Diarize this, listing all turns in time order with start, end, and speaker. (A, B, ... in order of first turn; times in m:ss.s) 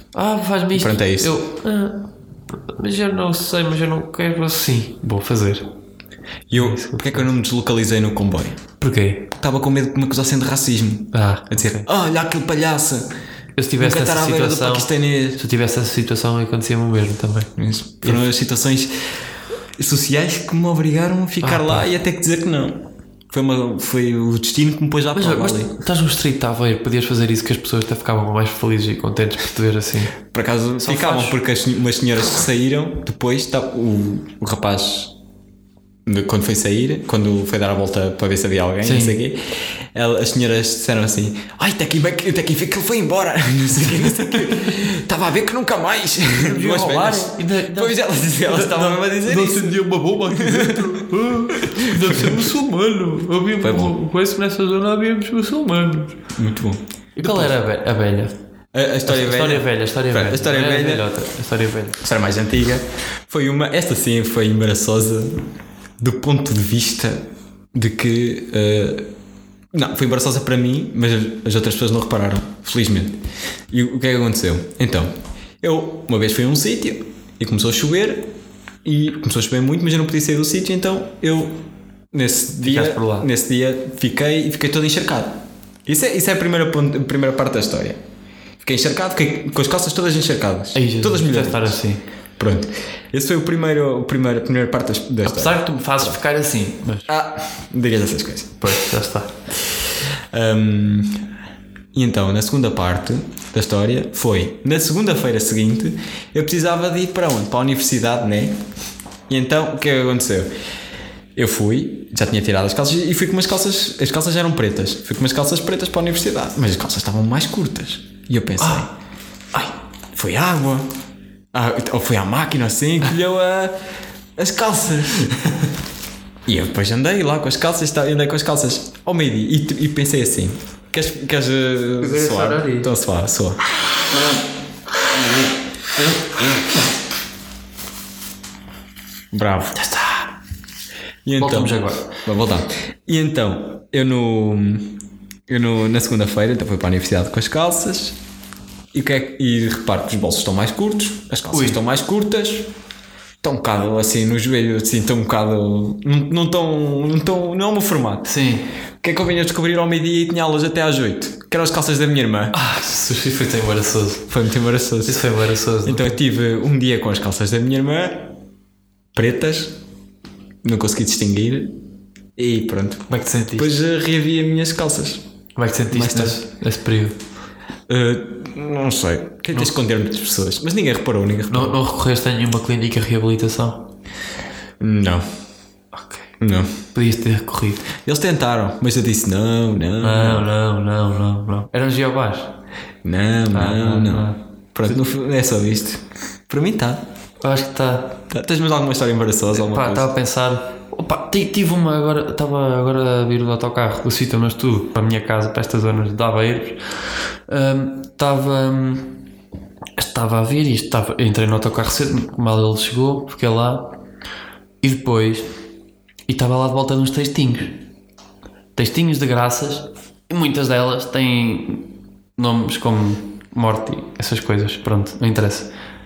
0:00.1-0:05.7 A
0:00.8-0:01.3 B
0:06.5-0:08.6 B
0:06.6-0:07.3 A
0:08.8-0:09.3 A
0:09.4-0:13.1 B
0:11.1-0:11.9 A
0:13.6-0:18.2 A
0:13.8-0:15.4 B
0:17.6-0:18.9 B
0:19.8-0:25.7 B
0:21.4-0:21.9 A
0:25.1-0:30.2 A
0:30.3-0:35.2 B
0:30.8-0:31.4 A
0:36.1-0:52.5 B
0:38.8-0:39.2 A
0:46.4-0:56.2 A
0:53.6-0:54.0 B
0:56.4-0:57.6 B
0:57.2-0:58.3 A
0:58.7-1:01.1 B
0:59.0-1:02.0 A
1:02.0-1:05.4 B
1:06.0-1:09.1 B
1:09.7-1:18.3 B
1:18.8-1:28.0 B
1:22.6-1:23.3 A
1:28.6-1:31.8 B
1:30.8-1:32.0 A
1:32.4-1:36.2 B
1:35.2-1:37.1 A
1:37.1-1:38.8 B
1:38.6-1:39.4 A
1:39.6-1:41.3 B
1:41.9-1:48.6 B
1:49.3-1:50.5 B
1:51.4-1:58.9 B
1:58.6-1:58.9 A
2:00.1-2:01.0 B
2:01.5-2:03.8 B
2:04.4-2:05.4 B
2:06.5-2:13.6 B
2:12.0-2:12.9 A
2:19.3-2:19.8 B
2:19.8-2:20.3 A
2:21.2-2:28.2 B
2:21.4-2:22.1 A
2:28.9-2:32.7 B
2:31.5-2:31.8 A
2:33.4-2:38.3 B
2:38.2-2:38.7 A
2:39.0-2:42.6 B
2:42.5-2:44.3 A
2:44.3-2:45.2 B
2:45.1-2:46.2 A
2:45.8-2:48.3 B
2:49.1-2:49.8 B
2:50.6-2:51.8 B
2:52.4-2:55.2 B
2:53.1-2:53.7 A
2:55.6-2:57.2 A
2:55.9-2:56.4 B
2:57.9-3:01.8 B
3:01.5-3:03.9 A
3:04.8-3:05.2 B
3:06.0-3:06.3 A
3:06.4-3:06.8 B
3:06.9-3:07.8 A
3:08.0-3:10.5 B
3:10.0-3:12.6 A
3:13.0-3:17.0 B
3:13.5-3:14.4 A
3:17.4-3:18.2 A
3:18.3-3:20.1 B
3:19.5-3:26.8 A
3:27.5-3:29.2 A
3:30.0-3:34.0 A
3:34.8-3:35.5 A
3:36.3-3:37.8 A
3:38.8-3:45.7 A